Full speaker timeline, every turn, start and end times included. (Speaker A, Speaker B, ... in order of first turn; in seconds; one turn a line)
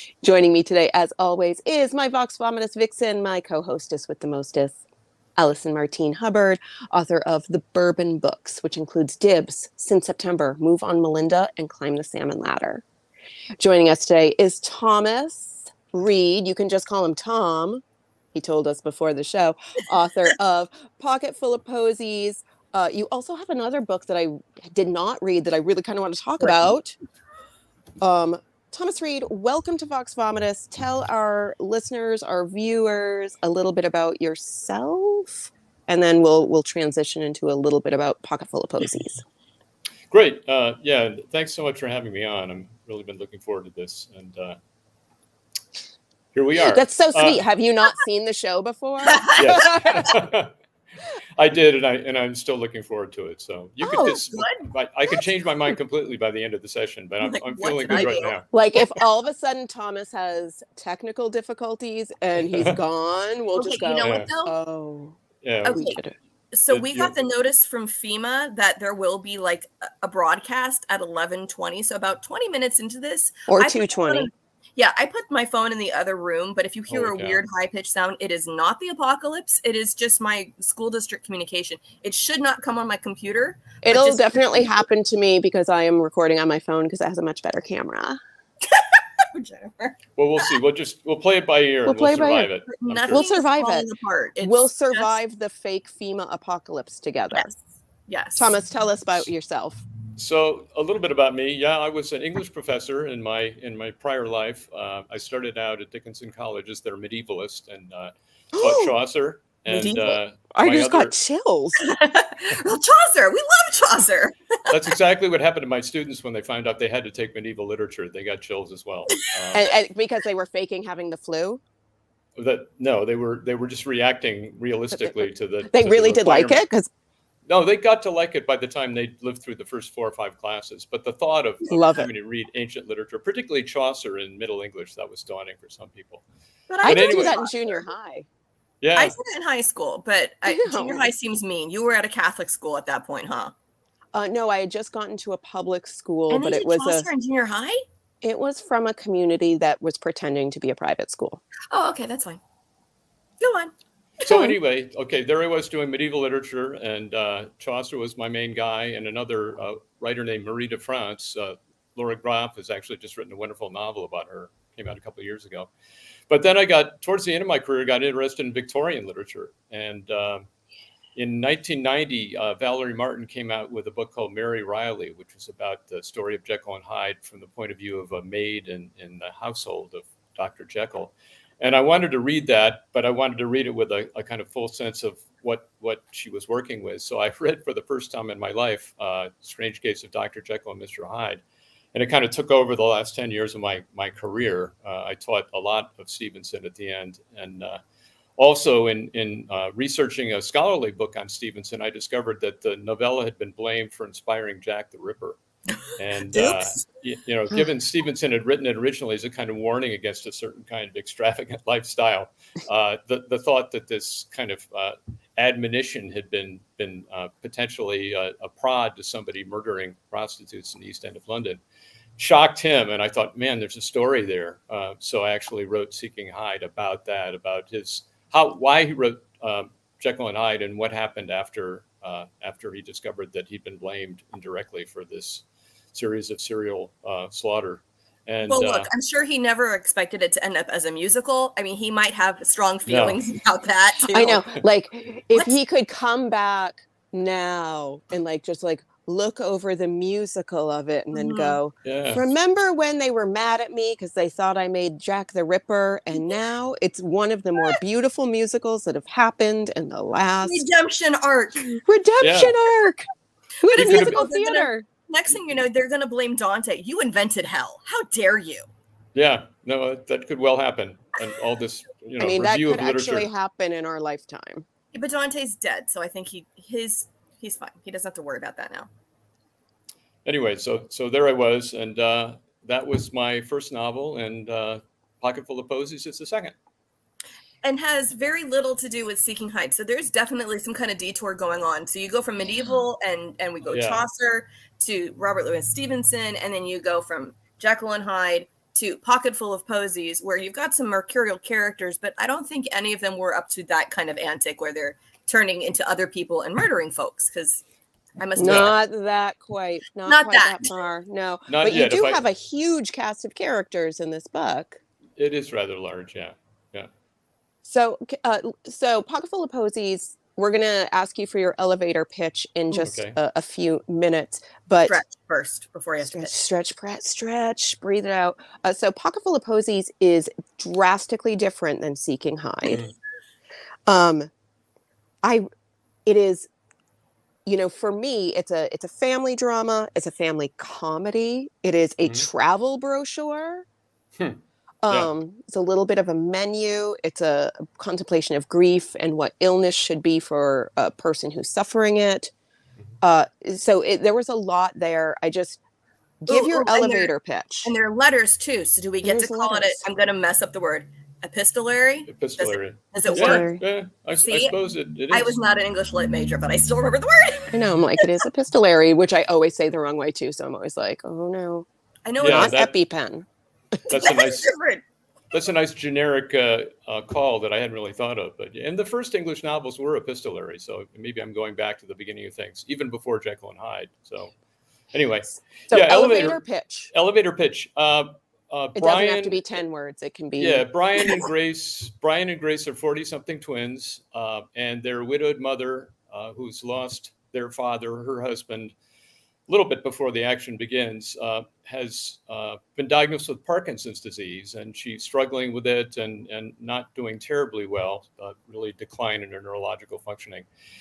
Speaker A: 0.2-4.8
Speaker A: 5.4-12.8
Speaker A: 13.6-17.8
Speaker A: 18.3-27.0
Speaker B: 26.4-26.8
Speaker A: 28.0-39.2
Speaker C: 40.1-44.6
Speaker C: 46.3-47.4
Speaker A: 46.6-50.1
Speaker B: 49.0-49.9
Speaker C: 49.4-50.5
Speaker C: 51.4-58.5
Speaker B: 53.8-54.7
Speaker A: 53.9-54.2
Speaker B: 57.2-58.8
Speaker A: 58.5-66.2
Speaker C: 62.5-62.8
Speaker B: 63.6-64.5
Speaker C: 64.0-64.3
Speaker C: 65.4-65.8
Speaker B: 65.7-66.0
Speaker B: 66.5-84.7
Speaker C: 66.7-67.1
Speaker A: 73.5-74.3
Speaker C: 76.9-77.4
Speaker A: 83.8-88.2
Speaker B: 88.6-90.0
Speaker C: 90.2-93.2
Speaker A: 91.9-92.5
Speaker B: 92.7-95.1
Speaker A: 93.1-93.9
Speaker A: 94.4-97.5
Speaker B: 98.1-98.5
Speaker A: 98.4-99.8
Speaker C: 100.2-111.2
Speaker A: 108.5-109.0
Speaker B: 109.7-110.2
Speaker A: 110.5-111.8
Speaker B: 111.8-114.8
Speaker C: 114.7-119.7
Speaker A: 119.5-121.6
Speaker C: 122.4-126.6
Speaker A: 125.0-126.9
Speaker C: 127.5-136.2
Speaker A: 131.7-132.1
Speaker B: 136.7-137.8
Speaker C: 136.8-137.4
Speaker A: 136.8-138.3
Speaker C: 138.8-139.2
Speaker B: 138.9-143.5
Speaker A: 140.5-141.1
Speaker A: 144.1-147.1
Speaker B: 146.3-147.8
Speaker A: 148.2-151.4
Speaker B: 151.7-152.4
Speaker B: 153.4-154.5
Speaker C: 154.3-165.7
Speaker C: 166.3-170.5
Speaker C: 171.2-191.4
Speaker C: 191.9-197.8
Speaker C: 198.4-205.4
Speaker B: 205.8-206.8
Speaker C: 205.9-221.6
Speaker C: 222.2-238.9
Speaker B: 238.5-244.4
Speaker C: 242.9-243.2
Speaker A: 244.1-260.6
Speaker B: 251.1-251.6
Speaker C: 251.8-252.3
Speaker B: 260.4-261.8
Speaker A: 261.9-263.1
Speaker C: 262.2-262.5
Speaker A: 263.6-264.9
Speaker B: 263.7-268.7
Speaker C: 263.8-264.2
Speaker C: 269.1-273.3
Speaker A: 272.2-274.6
Speaker B: 274.9-278.9
Speaker C: 280.2-286.6
Speaker B: 287.6-307.6
Speaker C: 293.7-294.1
Speaker B: 308.2-308.8
Speaker A: 308.4-314.8
Speaker C: 308.4-308.8
Speaker B: 310.1-310.8
Speaker C: 311.5-312.2
Speaker C: 315.2-316.9
Speaker A: 317.6-325.0
Speaker C: 322.7-323.2
Speaker B: 324.9-326.4
Speaker A: 326.0-332.8
Speaker A: 333.9-334.3
Speaker A: 336.1-336.5
Speaker A: 337.5-343.6
Speaker C: 344.2-345.1
Speaker A: 344.8-352.3
Speaker A: 353.0-355.6
Speaker A: 356.2-357.7
Speaker B: 356.3-357.1
Speaker B: 357.6-363.5
Speaker A: 359.0-359.8
Speaker C: 362.1-365.3
Speaker A: 363.1-363.6
Speaker B: 364.1-364.6
Speaker B: 365.1-367.6
Speaker A: 367.5-371.7
Speaker B: 372.1-372.6
Speaker C: 372.2-372.7
Speaker A: 372.2-373.3
Speaker C: 373.9-374.5
Speaker B: 373.9-374.8
Speaker C: 375.3-384.3
Speaker C: 384.9-389.4
Speaker A: 385.7-386.9
Speaker A: 388.8-391.2
Speaker C: 390.4-398.7
Speaker C: 399.5-410.5